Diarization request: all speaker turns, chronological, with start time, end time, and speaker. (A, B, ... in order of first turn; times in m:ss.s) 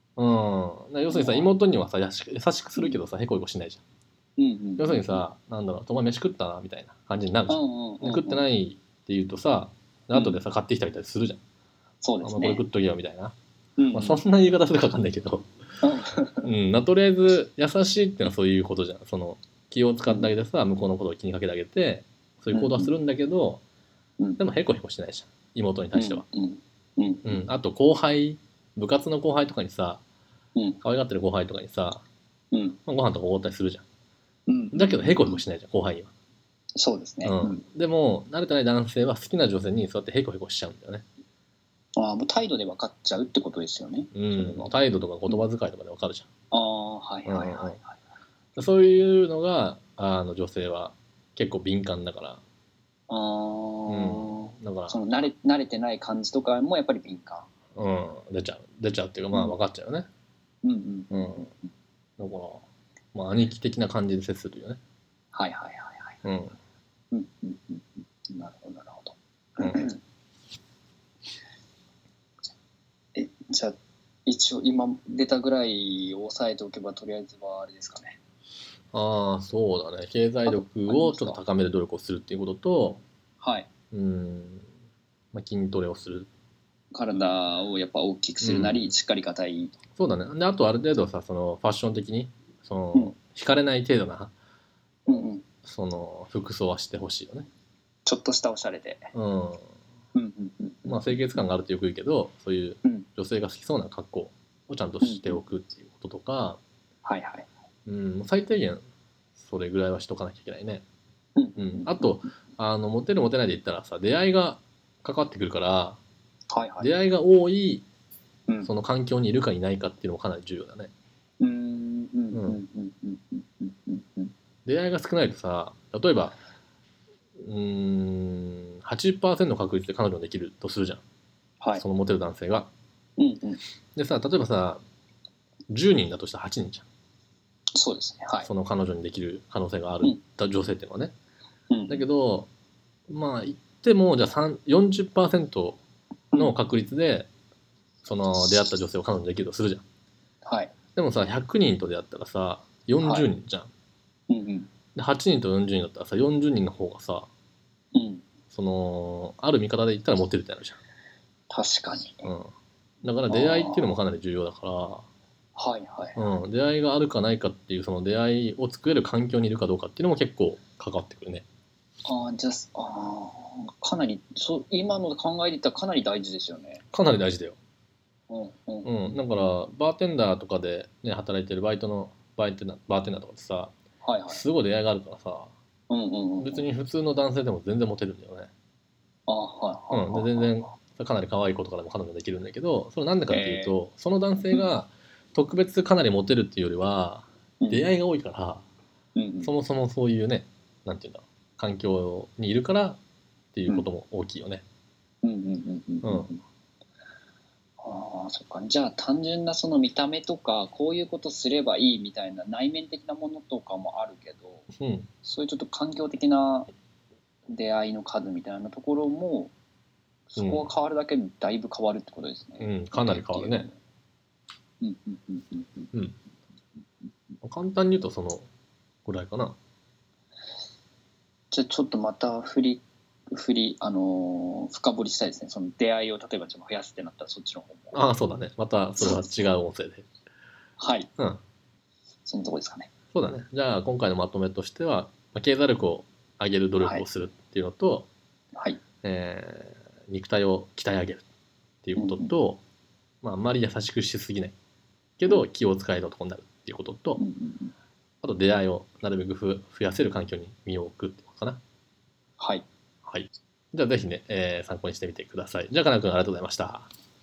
0:00.2-0:03.8 A
0:01.1-0:01.5 B
0:04.4-0:05.2 B
0:04.8-0:11.4 A
0:07.5-0:08.5 B
0:10.1-0:10.4 B
0:12.0-0:12.6 B
0:12.2-0:13.3 A
0:13.8-0:14.2 B
0:13.9-0:15.5 A
0:15.8-0:16.5 B
0:16.4-0:23.6 A
0:22.5-0:22.9 B
0:24.4-0:26.2 A
0:26.0-0:27.4 B
0:27.2-0:30.0 A
0:30.8-0:32.0 A
0:32.5-0:32.8 B
0:32.9-0:33.8 A
0:34.5-0:35.4 B
0:34.7-0:36.1 A
0:36.8-0:37.6 B
0:37.2-0:41.0 A
0:42.0-0:45.4 B
0:44.1-0:46.3 A
0:46.5-0:47.9 B
0:47.2-0:47.8 A
0:48.6-0:52.4 A
0:53.1-0:57.5 B
0:53.9-0:55.3 A
0:57.8-1:00.1 A
1:00.6-1:01.6 B
1:01.1-1:01.5 A
1:02.2-1:04.8 A
1:05.3-1:06.2 B
1:06.2-1:06.6 A
1:07.1-1:10.0 B
1:09.6-1:09.9 A
1:13.2-1:18.2 B
1:18.9-1:23.0 A
1:20.5-1:21.4 B
1:23.4-1:23.7 B
1:23.9-1:24.7 A
1:25.3-1:26.3 A
1:26.9-1:29.8 B
1:28.4-1:28.9 A
1:30.0-1:34.3 A
1:35.1-1:35.4 B
1:35.7-1:37.5 A
1:38.1-1:39.1 B
1:39.1-1:39.6 A
1:40.2-1:41.4 B
1:40.9-1:46.6 A
1:45.0-1:45.4 B
1:47.0-1:47.5 B
1:47.9-1:48.8 A
1:49.4-1:50.8 A
1:51.4-1:52.2 B
1:51.6-1:56.0 A
1:56.5-1:56.9 B
1:56.8-1:57.8 A
1:58.6-2:00.9 A
2:01.4-2:04.3 B
2:02.3-2:02.6 A
2:04.6-2:06.4 A
2:07.4-2:11.0 A
2:11.7-2:12.7 A
2:13.2-2:13.6 B
2:14.0-2:14.8 A
2:15.7-2:16.9 A
2:17.8-2:18.5 B
2:18.4-2:21.1 A
2:21.7-2:22.0 B
2:21.9-2:22.5 A
2:23.1-2:25.8 A
2:26.4-2:27.3 A
2:28.0-2:29.8 A
2:30.4-2:30.7 B
2:31.0-2:33.7 A
2:33.0-2:33.3 B
2:34.3-2:34.7 B
2:35.0-2:37.3 A
2:37.9-2:38.2 B
2:38.5-2:40.8 A
2:41.5-2:42.3 B
2:42.2-2:42.5 A
2:43.0-2:45.1 A
2:43.3-2:43.9 B
2:45.6-2:46.2 B
2:46.2-2:51.4 A
2:52.1-2:56.8 B
2:56.9-2:57.6 A
2:58.3-2:59.1 B
2:58.8-3:03.8 A
3:04.0-3:04.4 B
3:04.3-3:05.5 A
3:05.9-3:06.7 B
3:06.4-3:08.5 A
3:09.3-3:10.5 B
3:09.9-3:18.6 A
3:13.3-3:13.8 B
3:17.6-3:17.9 B
3:19.2-3:19.5 B
3:19.4-3:23.0 A
3:23.5-3:24.6 A
3:25.2-3:26.4 B
3:26.0-3:26.3 A
3:27.8-3:34.7 B
3:34.8-3:35.1 A
3:35.2-3:36.7 B
3:37.5-3:39.5 B
3:40.3-3:43.8 B
3:40.4-3:40.7 A
3:42.6-3:43.7 A
3:44.8-3:45.9 B
3:47.4-3:48.5 A
3:49.0-3:49.6 A
3:51.5-3:58.0 B
3:57.9-4:00.1 A
3:59.0-3:59.4 B
4:00.8-4:01.1 B
4:02.3-4:02.9 B
4:03.1-4:08.1 A
4:09.0-4:11.3 A
4:11.8-4:12.6 A
4:12.0-4:12.3 B
4:13.2-4:14.6 A
4:15.2-4:17.2 A
4:17.2-4:17.7 B
4:18.2-4:21.6 A
4:22.4-4:22.7 B
4:23.1-4:26.9 A